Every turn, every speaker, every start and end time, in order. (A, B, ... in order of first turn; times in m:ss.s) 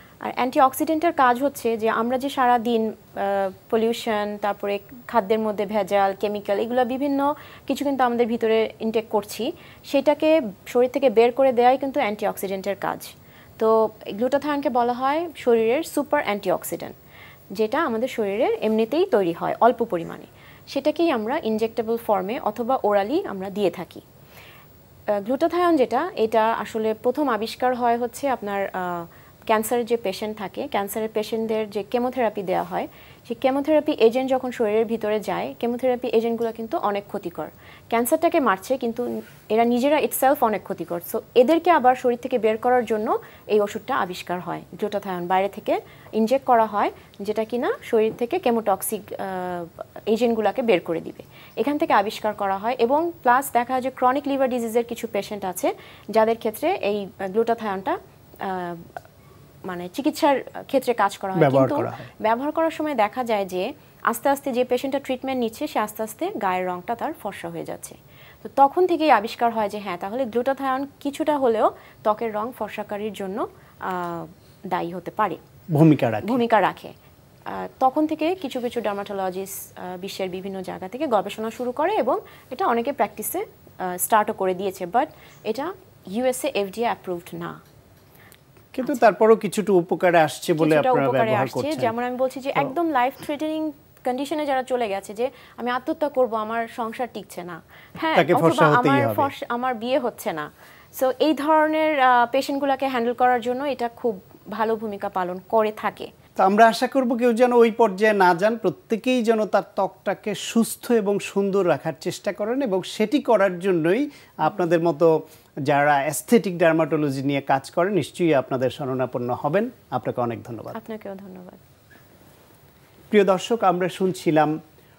0:00.2-0:16.9 A
0:17.6-0:24.0 A
0:25.2-0:58.9 A
0:59.7-1:15.4 A
1:01.4-1:02.1 B
1:15.7-1:16.4 B
1:16.2-1:16.9 A
1:17.5-1:27.6 A
1:28.7-1:31.9 B
1:28.8-1:29.1 A
1:30.6-1:46.1 A
1:38.2-1:39.3 B
1:46.4-1:55.1 B
1:55.7-2:00.8 B
2:00.8-2:01.6 A
2:03.1-2:04.5 B